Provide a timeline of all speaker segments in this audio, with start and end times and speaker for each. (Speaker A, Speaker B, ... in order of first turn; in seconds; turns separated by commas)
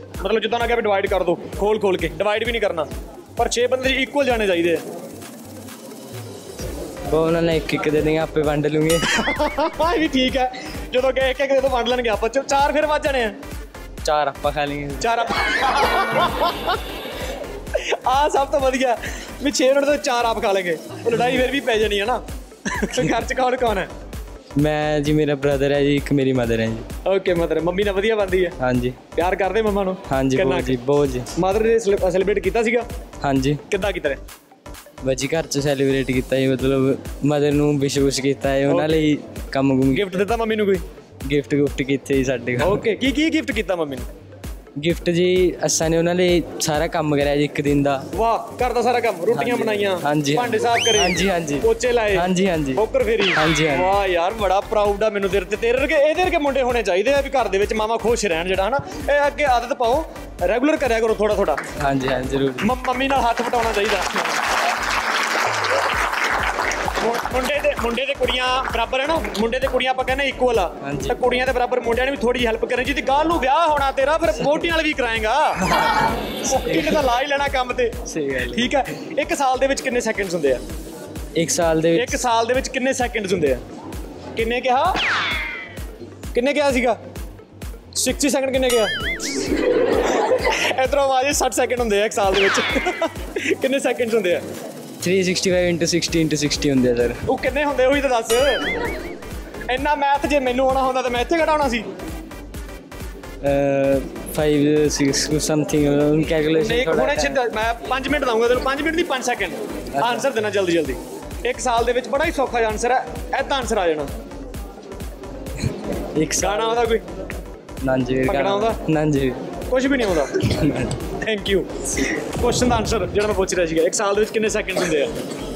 Speaker A: 0.2-4.8, Speaker B: 7.1-9.0, Speaker A: 9.2-13.4, Speaker B: 14.0-15.1, Speaker A: 15.0-16.7, Speaker A: 18.1-23.9, Speaker B: 24.6-26.8, Speaker A: 27.1-28.5, Speaker B: 28.6-28.9, Speaker A: 29.1-30.7, Speaker B: 30.1-31.3, Speaker A: 31.4-32.9, Speaker B: 33.2-33.6, Speaker A: 33.7-34.2, Speaker B: 35.0-40.2, Speaker A: 38.7-39.0, Speaker A: 39.9-40.8, Speaker B: 41.3-42.8, Speaker A: 42.6-44.1, Speaker B: 44.8-48.0, Speaker A: 48.1-52.2, Speaker B: 49.3-52.8, Speaker A: 52.8-61.6, Speaker B: 53.4-54.0, Speaker B: 61.8-62.7, Speaker A: 62.6-64.3, Speaker A: 67.0-75.6, Speaker B: 70.8-71.2, Speaker A: 76.5-77.9, Speaker B: 76.7-77.0, Speaker B: 78.1-78.7, Speaker A: 78.5-80.6, Speaker B: 81.4-82.2, Speaker A: 81.9-83.6, Speaker A: 84.3-85.0, Speaker A: 86.3-87.0, Speaker A: 88.0-88.9, Speaker A: 90.7-94.4, Speaker B: 95.0-97.2, Speaker A: 97.3-98.6, Speaker A: 99.7-101.8, Speaker B: 103.4-107.4, Speaker A: 106.5-114.1, Speaker B: 110.0-110.2, Speaker B: 116.2-116.8, Speaker A: 116.4-117.0, Speaker B: 117.8-119.4, Speaker A: 118.3-118.8, Speaker A: 119.7-120.3, Speaker B: 120.6-120.9, Speaker A: 121.2-121.7, Speaker A: 122.4-125.1